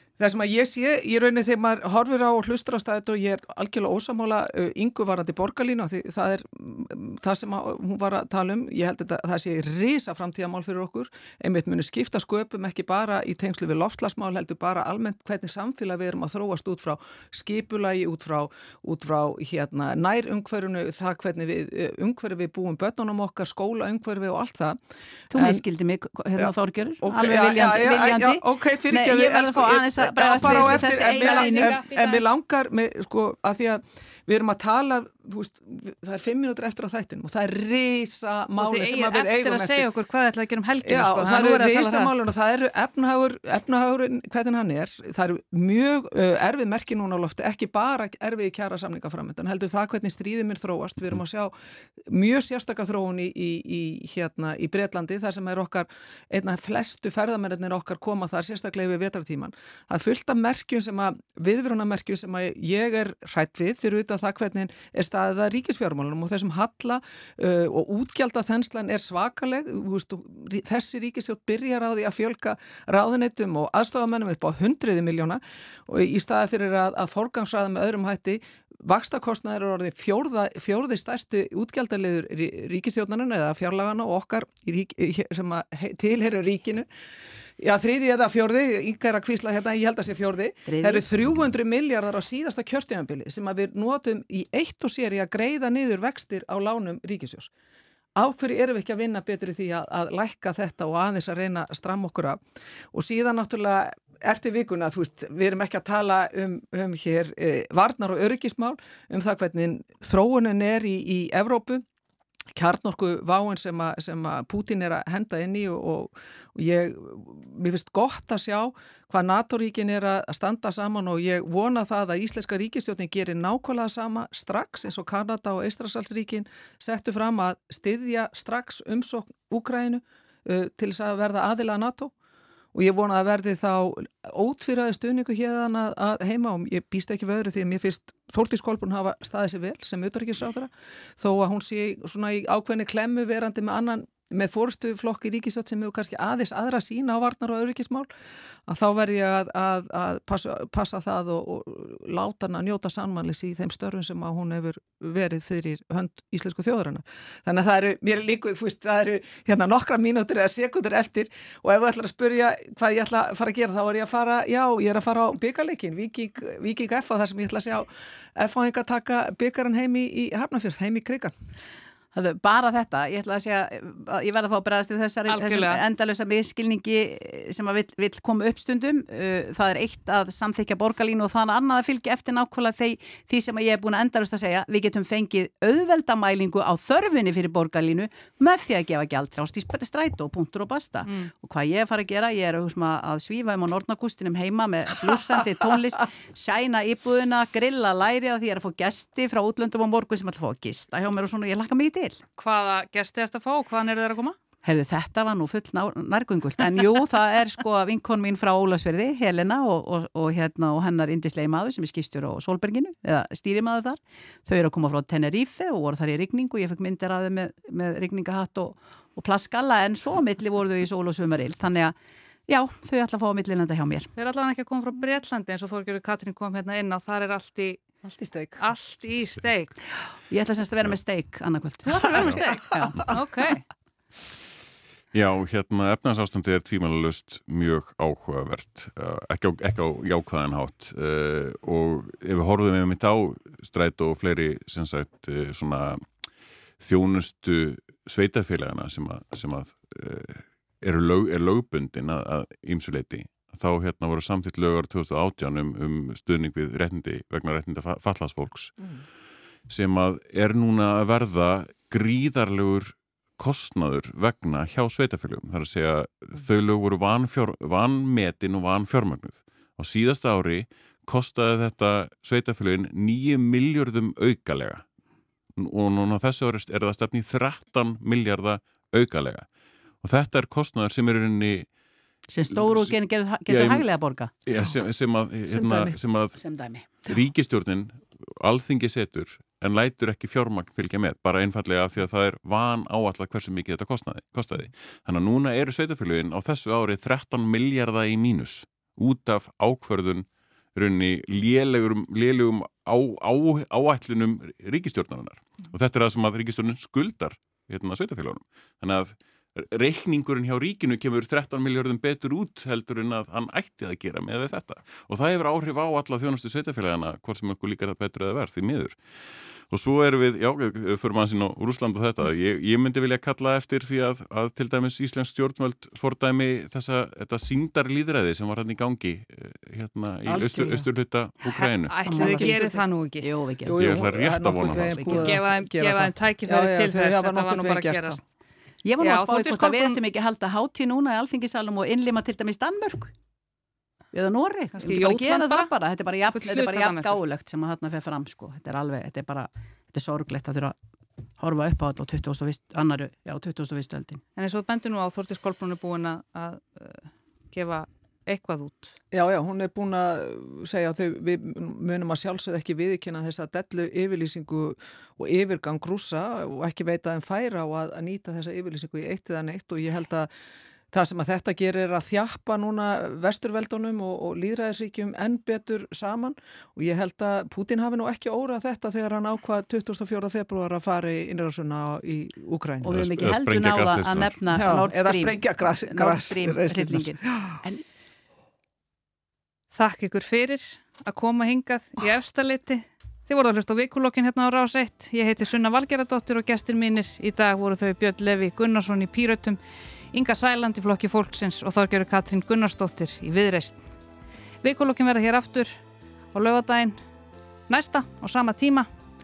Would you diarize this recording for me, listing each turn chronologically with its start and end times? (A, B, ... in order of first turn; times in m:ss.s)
0:00.2-0:24.8 A
0:25.3-0:31.8 B
0:25.3-0:25.6 A
0:27.0-0:39.9 A
0:30.4-0:32.3 C
0:38.6-0:42.1 C
0:40.8-1:26.9 A
1:27.6-1:37.5 A
1:30.7-1:31.0 B
1:38.2-1:42.4 A
1:42.9-1:51.8 A
1:52.6-2:12.1 A
2:12.7-2:28.1 A
2:28.7-2:51.3 A
2:52.1-3:22.2 B
2:55.3-2:55.8 C
3:22.4-3:24.4 C
3:24.6-3:42.0 B
3:42.5-3:44.1 B
3:44.2-3:47.8 C
3:48.0-3:48.6 A
3:48.6-3:49.8 C
3:50.3-3:53.1 B
3:51.9-3:53.6 C
3:52.2-3:52.9 A
3:55.1-4:06.1 D
4:06.8-4:19.0 D
4:19.7-4:34.8 D
4:35.6-4:39.5 D
4:40.0-4:41.7 D
4:42.3-4:44.3 B
4:42.5-4:43.9 D
4:44.5-4:46.4 D
4:45.5-4:46.0 A
4:46.4-4:47.2 B
4:47.0-5:32.2 D
5:30.3-5:30.9 B
5:31.5-5:33.3 C
5:32.0-5:35.3 B
5:32.2-5:32.6 A
5:33.6-5:38.2 A
5:33.8-5:35.2 D
5:35.1-5:38.2 C
5:38.8-5:43.1 B
5:39.0-5:40.0 C
5:44.1-5:50.8 B
5:44.8-5:45.7 C
5:46.3-5:47.2 C
5:51.4-5:54.2 B
5:54.4-5:58.9 C
5:59.1-6:10.3 A
6:10.9-6:23.0 A
6:22.8-6:27.8 B
6:22.9-6:24.4 D
6:24.5-6:27.6 A
6:29.7-6:39.6 C
6:40.1-6:43.9 C
6:44.6-6:45.8 C
6:46.3-6:47.0 C
6:47.7-6:48.9 C